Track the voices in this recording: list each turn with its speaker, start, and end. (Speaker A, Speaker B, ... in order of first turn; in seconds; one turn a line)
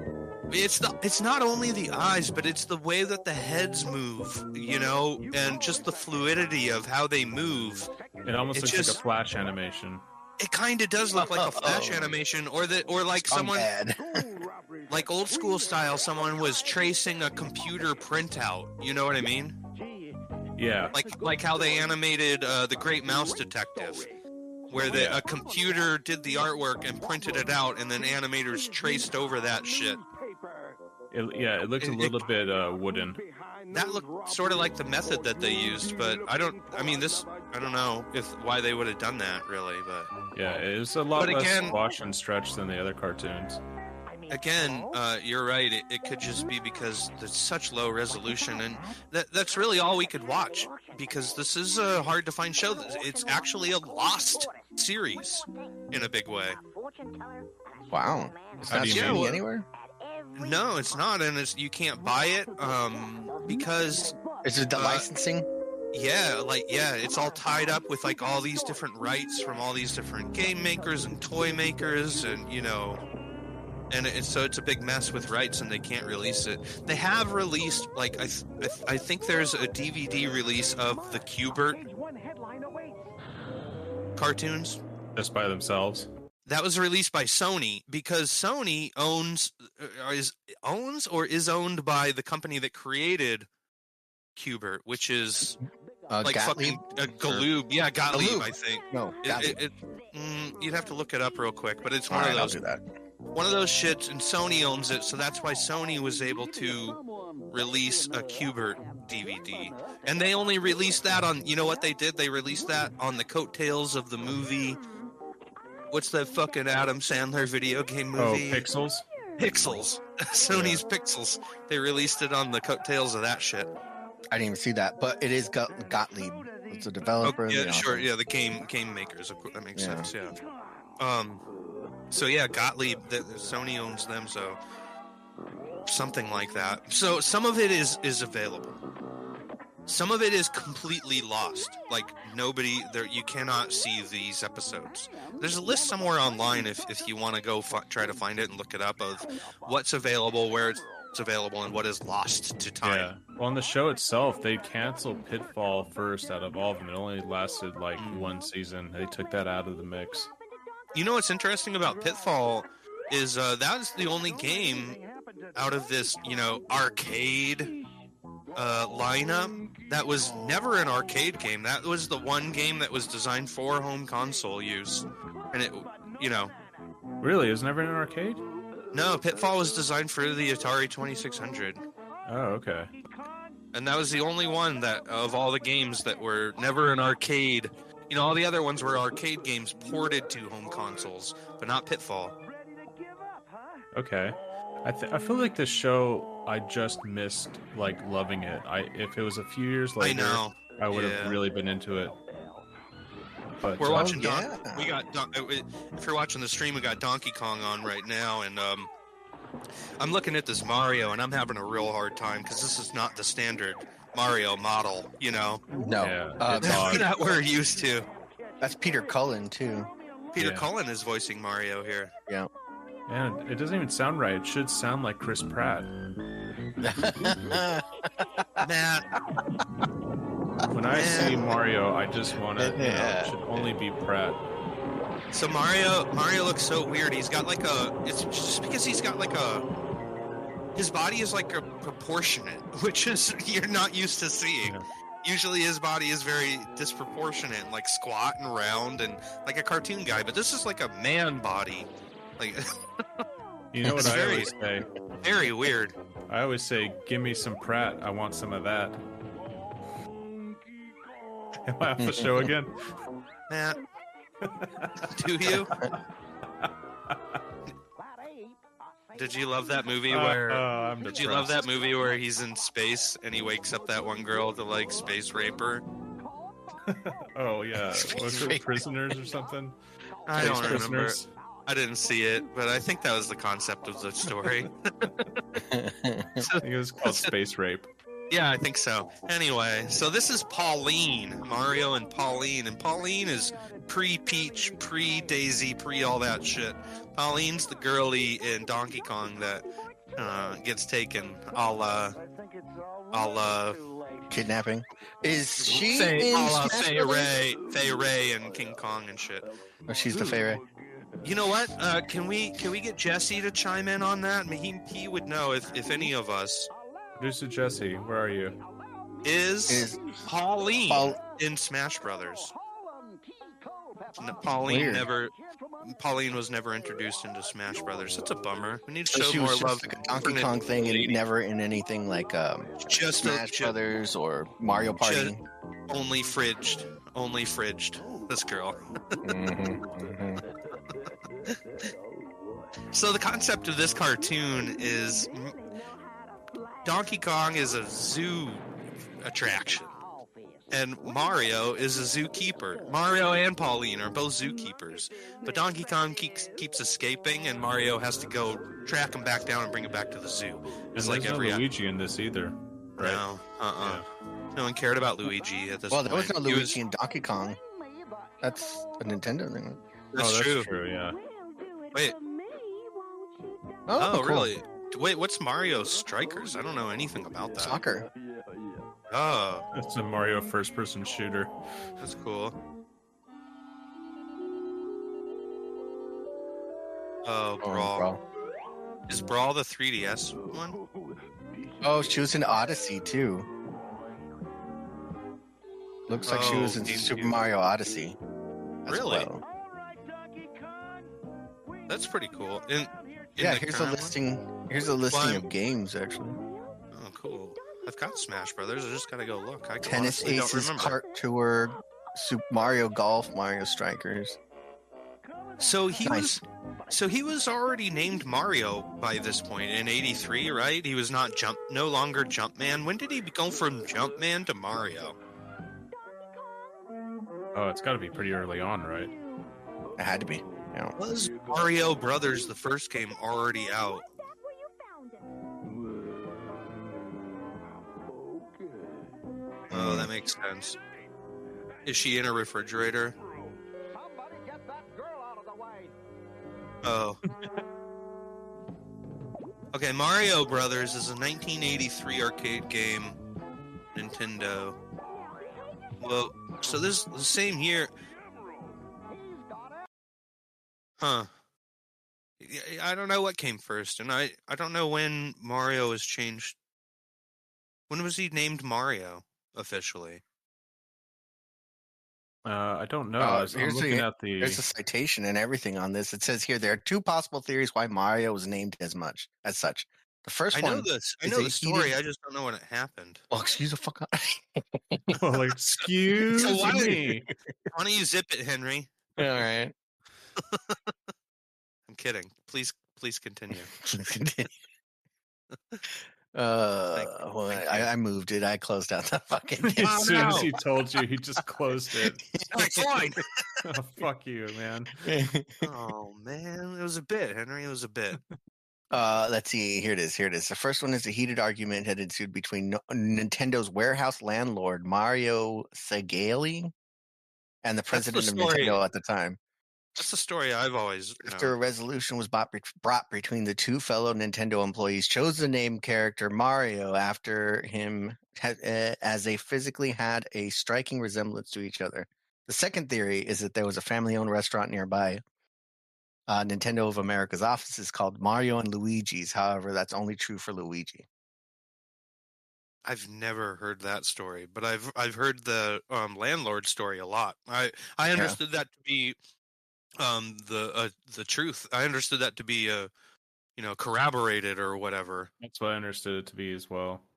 Speaker A: 0.5-7.9
Speaker B: 8.2-10.1
Speaker A: 8.5-9.0
Speaker A: 10.4-13.7
Speaker C: 11.2-12.1
Speaker C: 13.3-14.2
Speaker A: 14.9-19.6
Speaker B: 20.6-20.9
Speaker A: 20.9-24.1
Speaker A: 24.7-30.0
Speaker B: 24.9-25.2
Speaker B: 31.1-33.2
Speaker A: 31.8-32.2
Speaker A: 33.7-40.1
Speaker B: 40.3-43.6
Speaker A: 41.1-41.8
Speaker A: 44.3-56.6
Speaker C: 57.9-59.7
Speaker B: 58.7-59.4
Speaker A: 58.9-59.4
Speaker A: 60.4-64.2
Speaker C: 64.4-65.5
Speaker A: 64.8-65.1
Speaker A: 65.9-73.0
Speaker A: 73.9-81.9
Speaker A: 84.2-84.8
Speaker B: 85.2-86.1
Speaker A: 86.5-93.5
Speaker A: 94.4-95.6
Speaker C: 96.1-97.5
Speaker A: 96.2-102.6
Speaker C: 98.1-99.6
Speaker C: 102.1-102.8
Speaker A: 103.3-114.8
Speaker A: 115.9-118.7
Speaker B: 118.2-119.0
Speaker A: 119.4-123.7
Speaker C: 120.5-120.8
Speaker C: 124.3-128.1
Speaker A: 127.2-130.4
Speaker C: 129.8-130.1
Speaker A: 131.0-131.4
Speaker A: 132.1-134.6
Speaker A: 135.9-138.8
Speaker A: 139.9-153.1
Speaker B: 152.8-160.3
Speaker A: 158.0-158.3
Speaker A: 160.9-165.0
Speaker A: 165.5-167.8
Speaker A: 168.6-176.5
Speaker B: 177.2-178.4
Speaker A: 178.9-181.9
Speaker B: 182.3-182.9
Speaker A: 183.7-192.4
Speaker B: 193.9-202.2
Speaker A: 200.0-201.4
Speaker B: 203.6-204.2
Speaker A: 203.8-208.9
Speaker C: 203.9-204.9
Speaker A: 210.0-215.7
Speaker C: 215.7-217.1
Speaker B: 216.0-217.1
Speaker A: 216.7-218.1
Speaker C: 218.6-219.9
Speaker A: 220.3-222.1
Speaker B: 220.4-220.7
Speaker B: 223.1-225.9
Speaker C: 226.8-228.7
Speaker A: 228.6-229.1
Speaker B: 230.7-234.4
Speaker A: 230.9-231.5
Speaker C: 230.9-231.5
Speaker C: 232.6-233.3
Speaker A: 235.3-239.7
Speaker A: 240.8-253.2
Speaker B: 253.7-254.9
Speaker C: 253.8-254.2
Speaker A: 253.9-254.5
Speaker A: 255.2-256.0
Speaker B: 256.3-259.0
Speaker B: 261.6-262.8
Speaker C: 262.0-262.5
Speaker A: 263.5-263.8
Speaker B: 264.4-265.1
Speaker A: 265.1-265.7
Speaker B: 266.6-267.4
Speaker A: 269.1-275.8
Speaker B: 270.1-271.6
Speaker B: 276.9-279.8
Speaker C: 277.9-278.7
Speaker A: 280.3-285.3
Speaker B: 280.4-281.3
Speaker C: 280.4-280.8
Speaker C: 285.6-286.4
Speaker A: 286.4-287.3
Speaker B: 286.6-287.9
Speaker A: 288.3-299.7
Speaker A: 300.2-302.2
Speaker A: 303.1-303.9
Speaker C: 304.3-307.1
Speaker A: 305.7-309.5
Speaker C: 309.9-310.6
Speaker A: 311.2-316.7
Speaker B: 317.2-318.6
Speaker A: 319.2-322.5
Speaker C: 319.7-320.1
Speaker C: 320.9-321.2
Speaker A: 324.2-331.2
Speaker C: 324.6-325.1
Speaker C: 329.1-335.4
Speaker A: 332.8-333.8
Speaker A: 335.0-335.4
Speaker A: 335.9-338.9
Speaker C: 339.2-340.4
Speaker A: 342.9-345.6
Speaker A: 346.8-348.7
Speaker A: 349.2-350.0
Speaker A: 350.7-361.6
Speaker B: 360.9-363.2
Speaker A: 363.0-366.8
Speaker B: 363.8-364.1
Speaker C: 365.9-367.6
Speaker C: 368.4-369.8
Speaker A: 370.1-370.7
Speaker B: 370.2-371.2
Speaker C: 373.9-374.5
Speaker A: 374.0-377.8
Speaker C: 377.6-378.1
Speaker A: 379.1-379.7
Speaker B: 379.7-381.6
Speaker A: 382.0-382.6
Speaker A: 387.2-388.1
Speaker C: 387.6-388.2
Speaker A: 389.1-390.8
Speaker C: 391.8-393.5
Speaker C: 396.1-398.2
Speaker A: 396.3-397.4
Speaker C: 398.9-399.4
Speaker A: 398.9-399.3
Speaker A: 401.9-404.1
Speaker C: 403.4-406.4
Speaker A: 405.1-405.5
Speaker A: 406.9-411.0
Speaker C: 409.8-414.4
Speaker A: 415.6-425.2
Speaker C: 416.0-416.4
Speaker B: 427.5-429.1
Speaker C: 430.0-431.0
Speaker A: 431.0-434.1
Speaker C: 439.7-440.1
Speaker A: 439.7-440.8
Speaker A: 441.9-443.2
Speaker A: 446.8-447.2
Speaker A: 449.7-453.2
Speaker A: 453.9-454.8
Speaker A: 456.0-457.9
Speaker A: 461.0-461.3
Speaker A: 462.4-466.6
Speaker A: 467.9-470.2
Speaker B: 472.4-474.6
Speaker C: 473.2-481.9
Speaker A: 480.5-483.2
Speaker C: 483.3-485.2
Speaker B: 485.1-487.2
Speaker C: 486.2-487.0
Speaker A: 486.4-487.1
Speaker A: 487.7-488.9
Speaker C: 489.2-489.7
Speaker A: 490.4-490.8
Speaker A: 491.9-493.8
Speaker C: 493.8-494.5
Speaker C: 496.3-500.5
Speaker A: 496.9-497.9
Speaker B: 499.6-502.2
Speaker A: 499.8-500.5
Speaker C: 502.0-503.0
Speaker A: 502.5-503.2
Speaker B: 503.6-505.0
Speaker C: 505.0-505.7
Speaker A: 505.6-508.2
Speaker C: 508.9-516.7
Speaker C: 517.6-519.4
Speaker A: 517.9-518.8
Speaker A: 520.0-521.5
Speaker C: 521.2-535.2
Speaker C: 536.3-541.0
Speaker A: 542.9-549.2
Speaker A: 550.0-552.9
Speaker A: 553.6-555.3
Speaker B: 555.4-557.0